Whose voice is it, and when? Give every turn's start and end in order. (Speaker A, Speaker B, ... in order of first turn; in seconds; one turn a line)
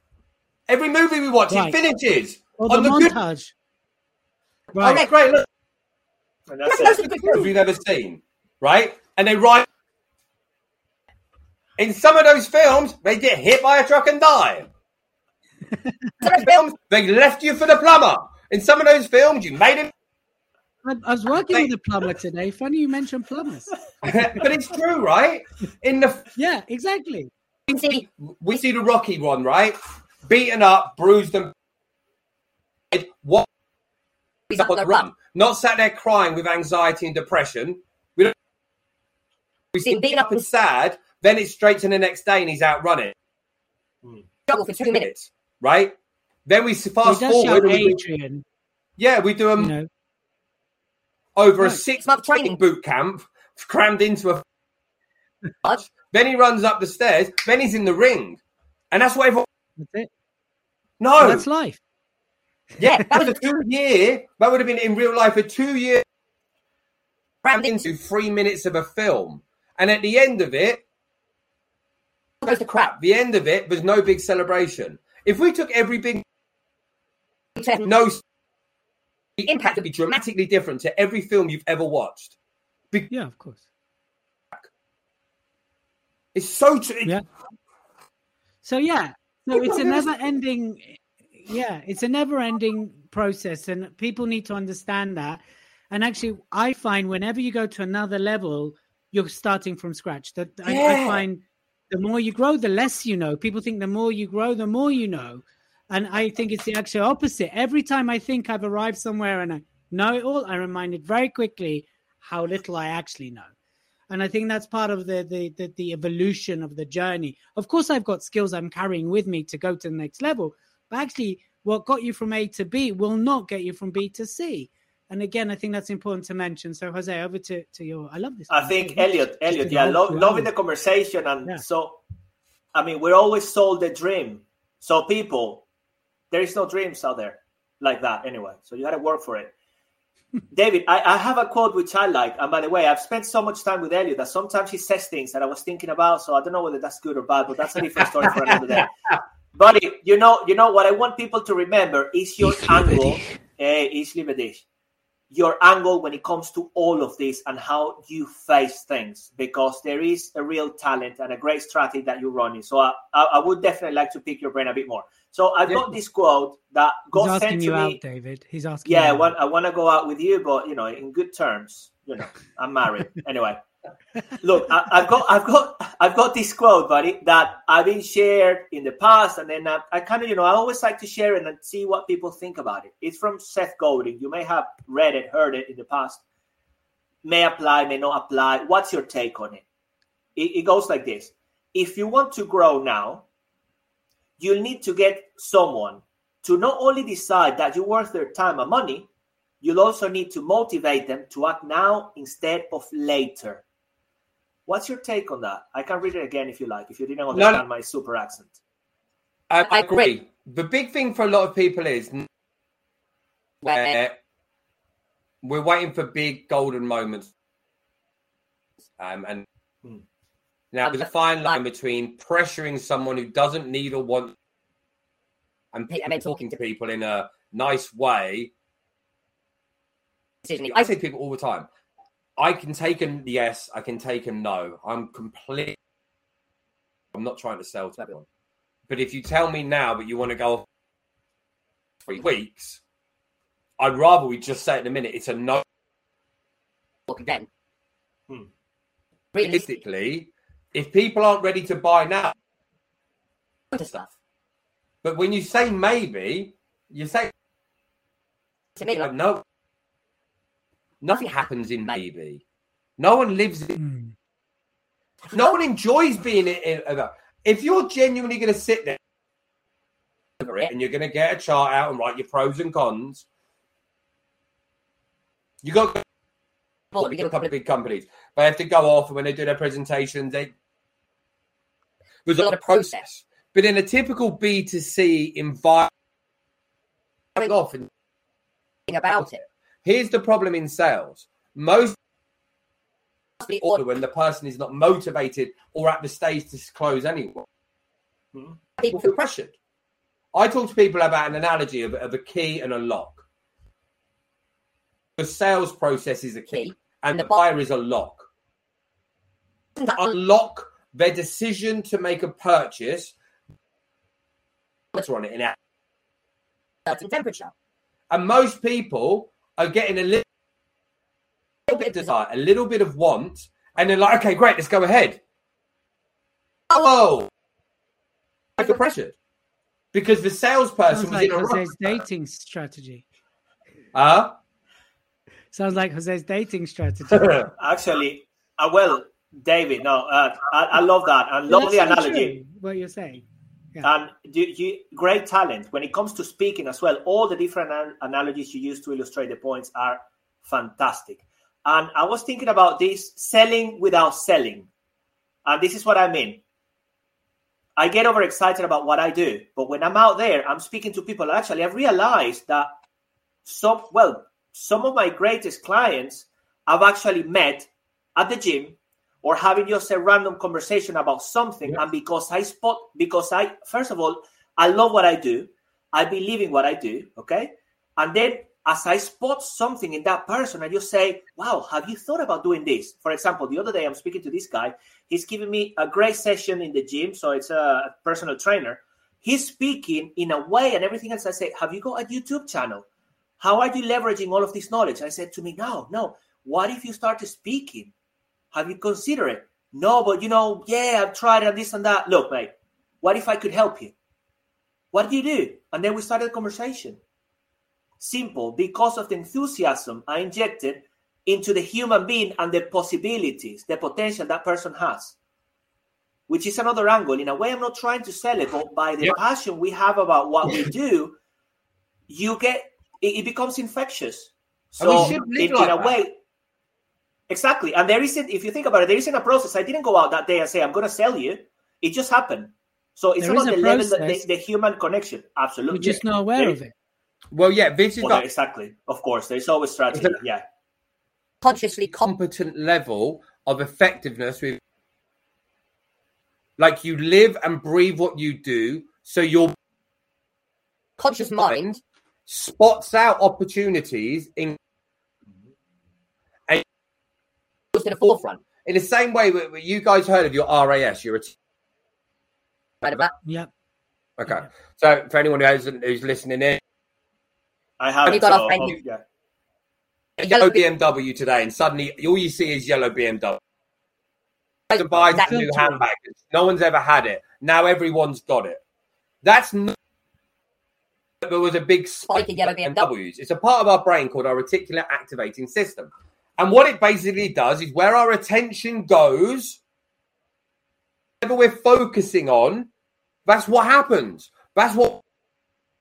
Speaker A: 0.7-3.1
Speaker B: 1.5-1.8
Speaker B: 2.6-3.5
Speaker B: 4.7-5.0
Speaker A: 4.8-5.5
Speaker C: 6.5-7.0
Speaker D: 6.7-7.5
Speaker A: 6.9-9.7
Speaker A: 11.8-14.7
Speaker D: 16.2-16.6
Speaker A: 16.2-19.9
Speaker B: 20.9-24.4
Speaker A: 24.0-26.3
Speaker B: 26.4-27.3
Speaker D: 27.7-28.1
Speaker A: 28.3-31.5
Speaker A: 32.9-33.5
Speaker D: 34.5-35.1
Speaker A: 34.5-38.3
Speaker A: 39.7-43.1
Speaker D: 39.8-40.4
Speaker D: 44.5-45.1
Speaker A: 44.9-46.0
Speaker A: 46.5-48.0
Speaker B: 47.0-48.4
Speaker A: 49.0-49.7
Speaker B: 49.6-49.9
Speaker A: 51.4-54.4
Speaker D: 52.0-52.5
Speaker A: 55.6-58.4
Speaker A: 58.9-59.5
Speaker B: 59.8-60.1
Speaker A: 61.0-61.5
Speaker B: 61.2-61.8
Speaker A: 62.8-66.0
Speaker D: 62.8-63.4
Speaker D: 67.4-67.8
Speaker A: 67.6-70.8
Speaker D: 72.4-72.9
Speaker A: 72.5-76.2
Speaker D: 77.6-77.9
Speaker A: 77.8-78.2
Speaker A: 79.4-82.3
Speaker D: 79.5-80.2
Speaker B: 83.1-83.7
Speaker A: 86.3-87.2
Speaker B: 88.6-113.5
Speaker A: 89.6-90.1
Speaker A: 100.7-101.2
Speaker B: 114.1-130.5
Speaker C: 128.5-132.0
Speaker C: 132.8-135.7
Speaker C: 136.3-139.5
Speaker C: 140.5-148.9
Speaker C: 149.6-154.6
Speaker C: 155.3-168.0
Speaker B: 167.2-169.3
Speaker C: 168.9-173.6
Speaker C: 174.4-186.2
Speaker C: 187.2-189.6
Speaker C: 190.4-193.2
Speaker C: 194.4-199.1
Speaker C: 199.6-203.6
Speaker C: 204.7-208.6
Speaker A: 207.3-207.6
Speaker A: 209.5-212.3
Speaker D: 209.7-210.0
Speaker D: 213.6-213.9
Speaker A: 213.6-214.2
Speaker A: 215.4-217.3
Speaker A: 219.0-219.5
Speaker A: 220.7-224.3
Speaker A: 225.7-228.5
Speaker D: 225.9-226.5
Speaker D: 230.4-230.8
Speaker A: 230.7-231.7
Speaker A: 232.4-235.8
Speaker A: 237.1-238.2
Speaker A: 238.9-240.7
Speaker A: 242.0-242.8
Speaker A: 243.8-245.6
Speaker D: 247.1-247.5
Speaker D: 249.3-249.7
Speaker A: 249.4-252.3
Speaker D: 253.7-254.0
Speaker A: 255.0-257.3
Speaker D: 258.8-259.1
Speaker A: 259.0-259.4
Speaker A: 261.0-262.4
Speaker A: 263.0-263.8
Speaker B: 263.8-264.1
Speaker A: 265.3-269.0
Speaker D: 270.4-270.7
Speaker A: 270.4-273.2
Speaker A: 275.6-276.0
Speaker D: 276.9-277.4
Speaker A: 277.0-280.5
Speaker A: 282.3-285.9
Speaker D: 282.4-283.0
Speaker A: 287.4-287.9
Speaker D: 288.9-289.4
Speaker A: 289.2-292.0
Speaker D: 293.4-293.8
Speaker A: 293.6-297.5
Speaker D: 298.8-299.1
Speaker A: 298.9-299.5
Speaker A: 300.3-303.2
Speaker A: 305.2-308.3
Speaker D: 306.5-307.3
Speaker A: 309.8-313.1
Speaker A: 314.9-315.6
Speaker D: 316.9-317.5
Speaker A: 318.1-320.2
Speaker D: 321.7-321.9
Speaker A: 321.7-325.2
Speaker A: 326.7-327.3
Speaker A: 328.6-329.2
Speaker A: 329.9-331.7
Speaker B: 330.9-333.0
Speaker A: 333.9-334.4
Speaker B: 335.5-337.5
Speaker C: 337.6-342.4
Speaker B: 341.5-343.2
Speaker C: 343.8-354.7
Speaker C: 355.5-356.4
Speaker C: 357.8-362.7
Speaker C: 363.4-392.9
Speaker C: 393.4-397.9
Speaker C: 398.5-403.9
Speaker C: 404.9-407.0
Speaker C: 408.0-415.2
Speaker C: 416.3-421.2
Speaker C: 422.1-426.2
Speaker A: 424.8-426.0
Speaker C: 427.3-436.6
Speaker B: 433.2-434.2
Speaker B: 435.7-436.7
Speaker A: 437.3-438.2
Speaker C: 438.0-440.4
Speaker A: 439.9-440.2
Speaker D: 441.4-442.1
Speaker A: 441.9-444.6
Speaker A: 446.6-449.6
Speaker D: 451.0-451.7
Speaker A: 451.4-454.6
Speaker D: 457.7-458.4
Speaker A: 458.6-461.4
Speaker D: 462.8-463.1
Speaker B: 463.2-463.5
Speaker A: 464.2-466.6
Speaker C: 467.8-469.0
Speaker A: 468.1-468.7
Speaker D: 468.1-468.8
Speaker D: 470.2-470.6
Speaker A: 470.2-473.4
Speaker D: 474.7-475.3
Speaker A: 474.7-478.6
Speaker B: 475.1-475.8
Speaker A: 479.2-479.8
Speaker A: 481.2-489.6
Speaker D: 482.1-482.9
Speaker A: 491.2-492.7
Speaker A: 493.3-495.0